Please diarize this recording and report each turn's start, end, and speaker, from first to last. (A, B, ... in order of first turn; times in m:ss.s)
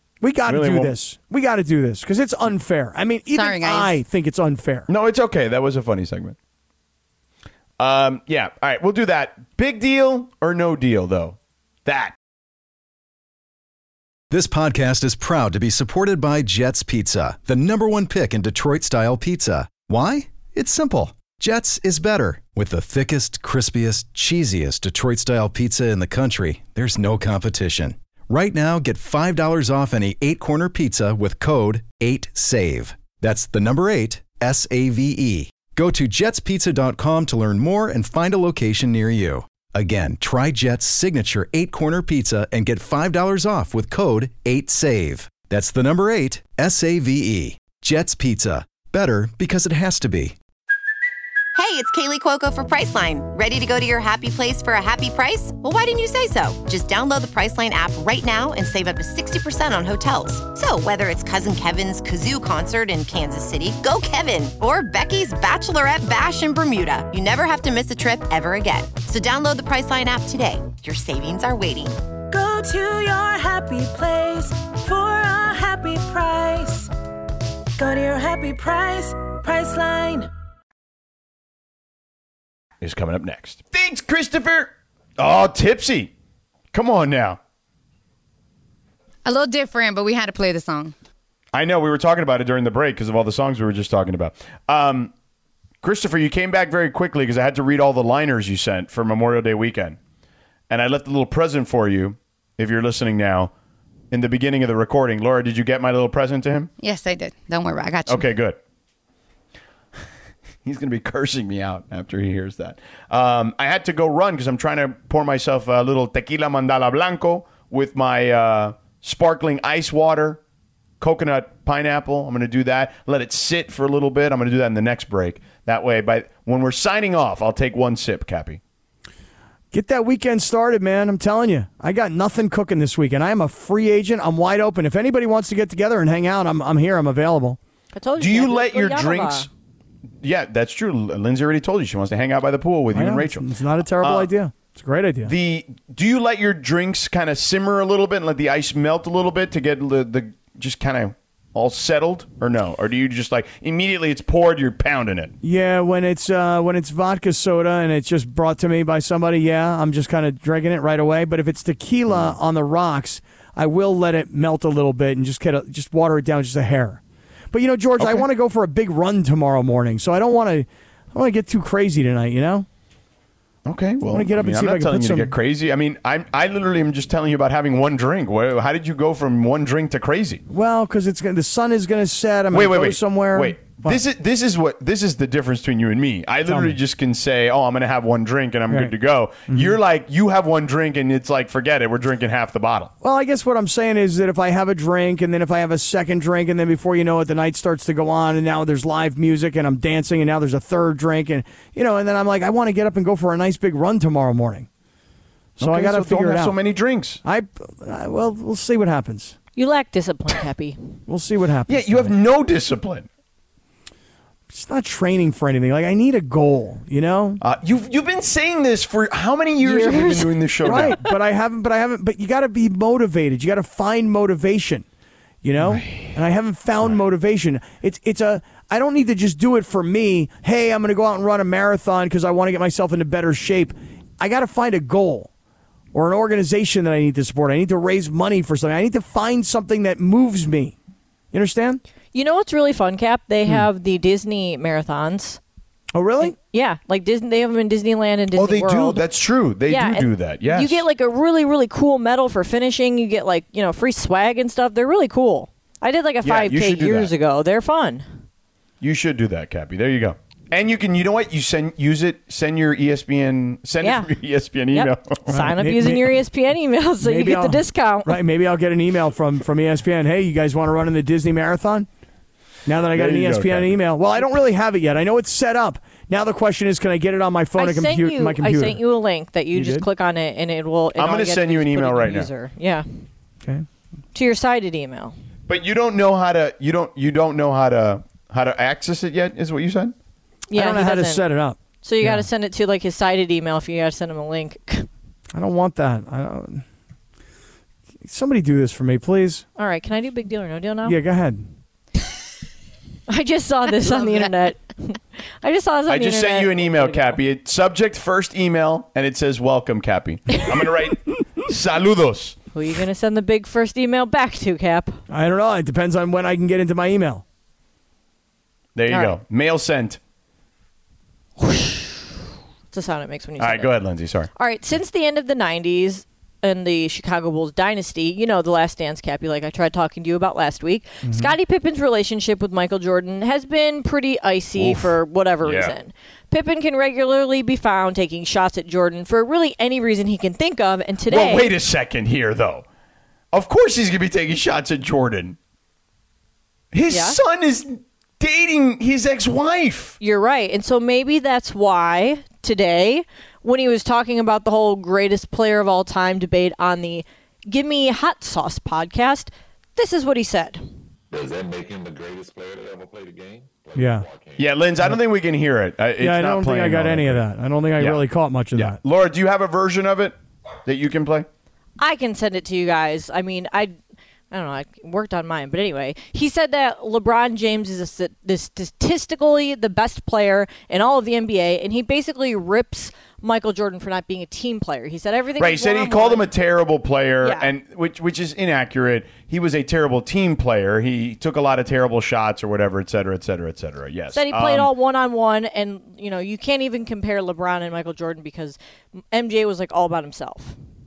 0:00.2-0:04.9 A
0:00.5-0:01.0 B
0:03.3-0:04.0 C
0:04.9-0:06.4 B
0:07.8-0:12.2 B
0:14.3-0:50.4 D
0:51.6-1:12.0 E
1:12.3-1:16.9 F
1:17.8-1:20.3 F
1:22.8-1:26.1 B
1:26.7-1:27.4 B
1:29.2-1:30.9 C
1:31.5-1:35.1 B
1:35.8-1:40.0 B
1:40.7-1:43.5 B
1:44.1-1:46.7 B
1:46.8-1:48.3 C
1:48.1-1:48.6 B
1:50.6-2:00.4 B
2:01.0-2:08.6 B
2:09.7-2:17.6 A
2:18.0-2:19.5 G
2:18.2-2:19.5 B
2:20.2-2:23.5 B
2:22.9-2:25.3 A
2:24.0-2:24.3 B
2:25.3-2:35.3 B
2:35.4-2:47.0 A
2:42.1-2:42.4 B
2:47.5-2:52.7 A
2:48.0-2:48.3 B
2:53.6-3:00.4 B
2:54.1-2:55.3 A
3:00.5-3:04.0 A
3:02.5-3:12.9 B
3:06.5-3:06.8 A
3:09.5-3:09.8 A
3:13.0-3:24.7 A
3:25.6-3:26.6 A
3:25.6-3:27.2 B
3:27.2-3:29.4 A
3:29.6-3:30.8 G
3:31.1-3:32.1 A
3:31.7-3:33.1 B
3:34.5-3:37.4 A
3:37.4-3:41.0 B
3:39.6-3:40.9 G
3:40.7-3:44.9 A
3:45.4-3:55.3 A
3:45.6-3:46.2 B
3:55.9-4:00.8 A
4:01.3-4:01.8 A
4:02.1-4:05.4 G
4:05.9-4:06.3 A
4:06.2-4:09.0 G
4:08.4-4:10.8 B
4:09.7-4:18.0 G
4:16.2-4:17.1 B
4:18.8-4:25.2 B
4:23.8-4:24.1 G
4:24.7-4:28.2 G
4:25.3-4:26.1 A
4:27.0-4:31.9 A
4:32.7-4:38.8 A
4:32.9-4:33.8 B
4:37.6-4:42.9 G
4:39.5-4:39.9 A
4:41.0-4:42.3 B
4:44.1-4:45.2 G
4:45.5-4:49.9 B
4:50.5-4:51.3 G
4:50.5-4:52.3 A
4:51.8-4:54.9 G
4:55.3-4:56.6 A
4:58.0-4:59.4 A
4:59.6-5:01.0 G
5:00.8-5:01.5 A
5:03.1-5:07.2 G
5:03.9-5:04.3 C
5:05.9-5:12.4 B
5:12.5-5:15.0 G
5:15.1-5:17.2 A
5:18.8-5:20.0 B
5:21.4-5:22.1 G
5:22.7-5:23.7 G
5:23.4-5:24.3 B
5:24.4-5:41.5 G
5:31.0-5:31.3 A
5:34.6-5:35.8 B
5:41.1-5:42.6 B
5:43.3-5:45.4 B
5:46.7-5:50.0 B
5:46.9-5:47.2 G
5:50.0-6:00.6 G
6:01.1-6:04.7 H
6:03.8-6:04.1 A
6:04.4-6:07.2 B
6:06.0-6:08.8 A
6:08.5-6:11.3 B
6:11.8-6:13.7 G
6:14.3-6:26.3 G
6:25.4-6:34.7 B
6:27.2-6:27.5 G
6:34.1-6:38.6 G
6:39.1-6:40.6 G